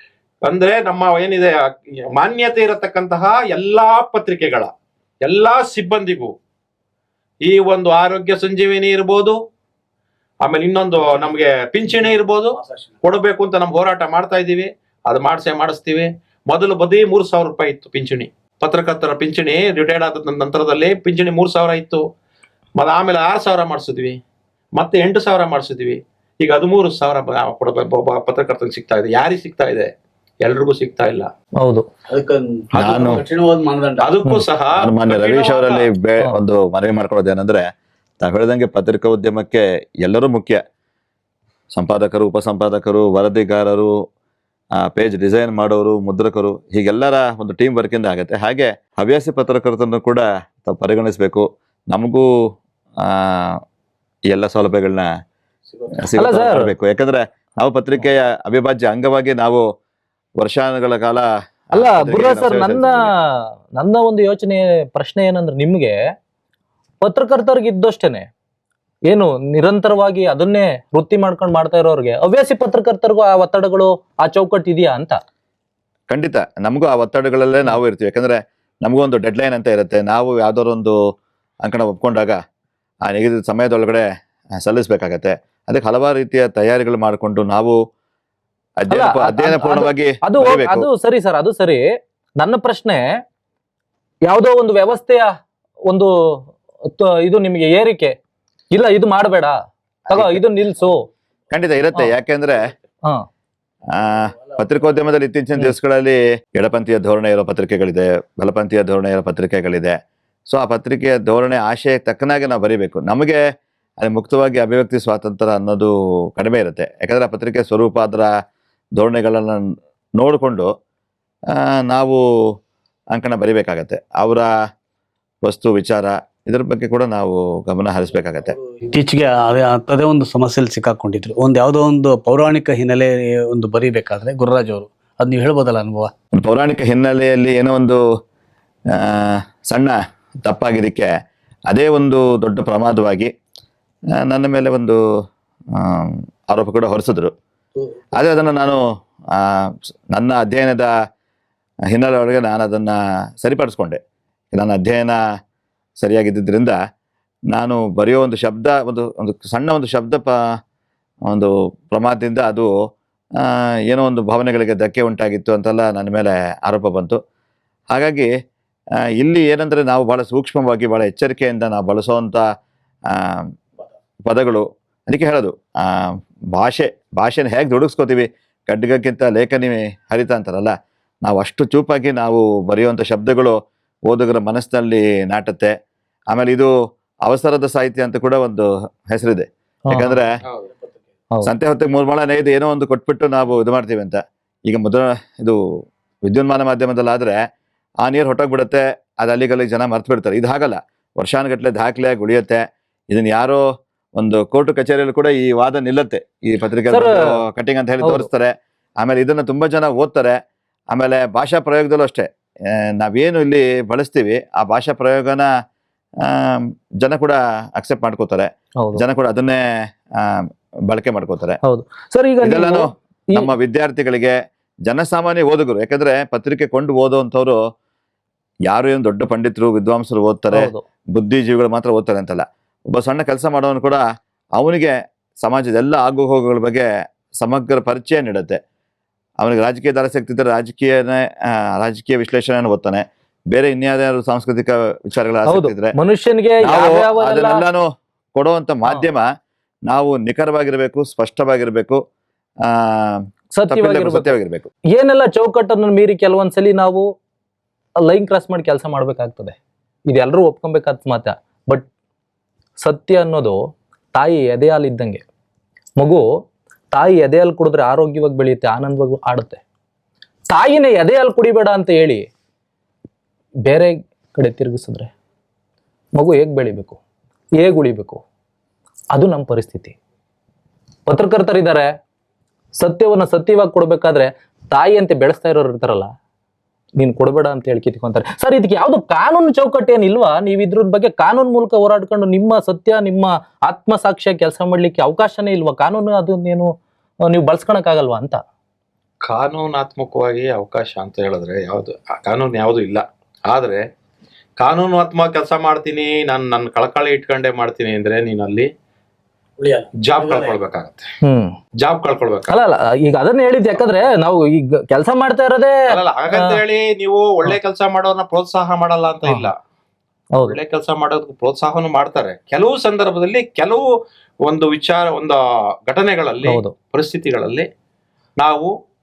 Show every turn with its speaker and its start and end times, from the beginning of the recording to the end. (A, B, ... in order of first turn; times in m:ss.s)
0:00.5-0:04.7 A
0:05.2-0:06.3 A
0:07.4-0:09.4 A
0:10.4-0:22.0 A
0:11.0-0:13.0 B
0:22.8-0:24.2 A
0:24.8-0:29.9 A
0:30.4-0:31.3 A
0:31.6-0:31.8 C
0:32.1-0:34.1 B
0:32.8-0:33.2 A
0:32.8-0:33.2 D
0:34.0-0:35.9 A
0:34.8-0:37.7 D
0:38.2-0:40.6 D
0:41.8-0:43.9 D
0:44.8-0:52.3 D
0:53.0-0:53.6 D
0:54.3-0:55.1 D
0:55.7-0:56.0 B
0:56.0-0:59.6 D
0:56.2-0:56.7 C
1:00.4-1:03.1 D
1:01.8-1:03.1 C
1:03.8-1:06.0 C
1:07.0-1:08.3 C
1:09.1-1:15.2 C
1:16.1-1:21.0 D
1:21.6-1:22.4 D
1:23.1-1:24.0 D
1:24.6-1:27.8 D
1:28.8-1:30.9 D
1:28.9-1:31.8 C
1:32.4-1:33.0 C
1:34.3-1:35.3 C
1:37.0-1:38.1 C
1:38.7-1:39.6 C
1:40.1-1:40.4 D
1:40.1-1:41.0 C
1:41.5-1:42.6 D
1:44.0-1:50.0 D
1:50.5-1:53.4 D
1:54.0-1:58.3 D
1:59.0-1:59.6 D
2:00.2-2:00.7 D
2:01.5-2:02.2 D
2:03.1-2:04.5 D
2:05.4-2:08.6 D
2:08.1-2:16.1 B
2:16.4-2:18.0 D
2:19.0-2:21.1 D
2:21.7-2:23.3 D
2:24.2-2:25.0 D
2:25.8-2:27.3 D
2:28.2-2:28.8 D
2:29.4-2:30.9 D
2:31.9-2:34.0 D
2:34.5-2:35.2 D
2:36.0-2:36.8 D
2:37.5-2:40.3 D
2:41.3-2:42.7 D
2:43.4-2:47.2 D
2:47.9-2:48.3 D
2:49.2-2:52.4 D
2:53.1-2:53.4 D
2:54.2-3:00.7 D
3:01.2-3:03.6 D
3:04.1-3:05.7 D
3:06.3-3:06.7 D
3:07.3-3:10.3 D
3:09.9-3:10.2 C
3:10.4-3:10.7 A
3:11.4-3:15.6 D
3:16.3-3:17.4 D
3:18.0-3:23.6 D
3:24.2-3:30.4 D
3:26.9-3:27.2 C
3:28.0-3:28.3 C
3:30.9-3:32.3 D
3:33.0-3:35.5 D
3:36.2-3:39.6 D
3:40.2-3:41.6 D
3:41.6-3:43.5 C
3:42.4-3:47.6 D
3:48.7-3:54.0 D
3:50.5-3:50.8 C
3:54.6-3:56.9 D
3:57.4-3:58.6 D
3:59.4-4:06.0 D
4:05.5-4:07.6 C
4:06.6-4:09.3 D
4:09.9-4:12.0 D
4:12.6-4:14.7 D
4:13.5-4:14.3 C
4:14.9-4:17.0 C
4:18.1-4:19.6 C
4:20.1-4:21.9 C
4:22.8-4:23.6 C
4:24.1-4:25.2 C
4:26.9-4:29.6 C
4:30.5-4:32.3 C
4:33.7-4:35.1 C
4:36.2-4:37.0 C
4:37.6-4:38.2 C
4:39.1-4:40.0 C
4:41.1-4:41.9 C
4:42.8-4:46.1 C
4:47.0-4:56.7 C
4:57.3-4:58.4 C
4:59.2-5:03.8 A
5:04.6-5:08.7 A
5:09.6-5:10.6 B
5:10.0-5:11.1 A
5:11.2-5:11.5 C
5:11.8-5:12.6 A
5:12.5-5:15.8 C
5:15.9-5:19.5 A
5:20.4-5:23.8 A
5:24.4-5:27.7 A
5:26.4-5:26.7 C
5:28.4-5:28.7 A